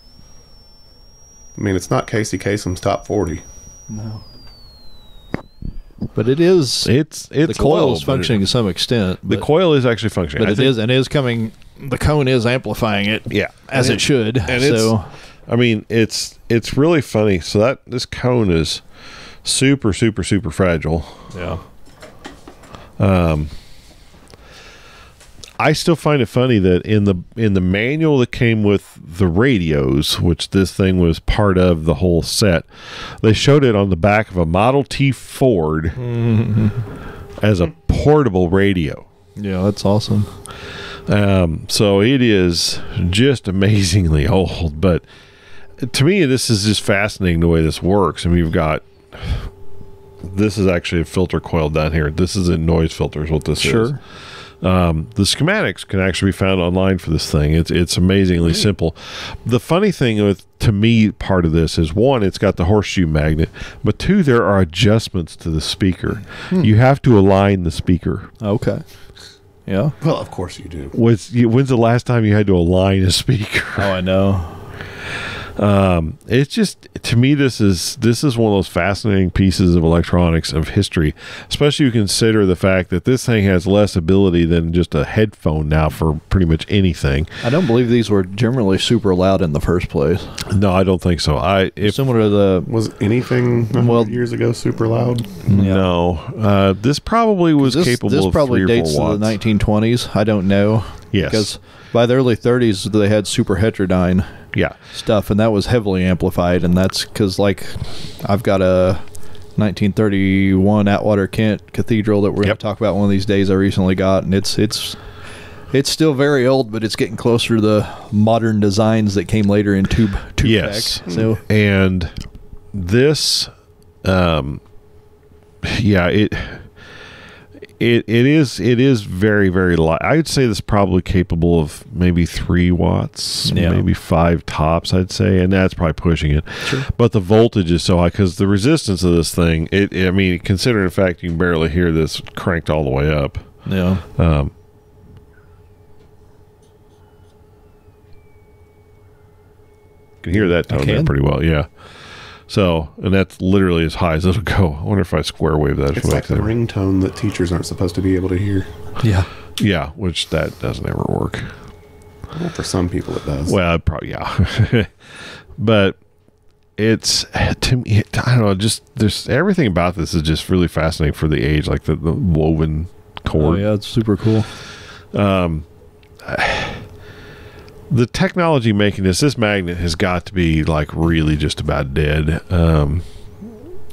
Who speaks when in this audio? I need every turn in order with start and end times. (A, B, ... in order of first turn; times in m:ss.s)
0:01.6-0:03.4 A
0:03.9-0:04.2 B
0:06.2-0:09.5 B
0:06.8-0:08.5 C
0:09.2-0:10.8 C
0:10.4-0:15.1 B
0:13.3-0:15.0 C
0:15.5-0:18.8 C
0:19.4-0:21.3 C
0:21.3-0:21.6 B
0:23.0-0:23.5 C
0:25.6-0:36.0 C
0:36.0-0:36.9 B
0:37.4-0:39.1 C
0:39.4-0:40.3 B
0:41.1-0:45.0 C
0:45.8-0:49.5 C
0:50.2-0:54.0 C
0:53.6-0:54.0 B
0:54.6-1:08.3 C
1:08.4-1:08.8 B
1:09.7-1:10.0 B
1:10.0-1:11.0 A
1:10.9-1:14.0 C
1:13.8-1:14.7 B
1:15.0-1:27.3 C
1:27.4-1:30.4 B
1:30.5-1:32.0 C
1:31.8-1:32.7 B
1:32.6-1:35.4 A
1:33.7-1:34.2 B
1:35.4-1:39.4 C
1:35.5-1:35.9 B
1:37.6-1:44.3 B
1:41.1-1:41.5 C
1:44.9-1:49.0 B
1:49.6-1:55.0 B
1:55.7-2:01.4 B
2:00.4-2:02.1 C
2:02.7-2:03.5 C
2:04.0-2:04.6 C
2:05.6-2:06.7 C
2:07.8-2:24.5 C
2:13.5-2:13.8 B
2:23.6-2:24.0 B
2:30.2-2:36.6 C
2:30.6-2:31.1 B
2:35.9-2:38.7 A
2:39.0-2:39.3 B
2:39.6-2:41.5 C
2:42.3-2:43.6 A
2:43.5-2:46.0 C
2:46.8-2:53.7 C
2:53.3-2:54.5 B
2:55.1-2:55.7 C
2:56.2-2:56.9 C
2:57.9-3:03.5 C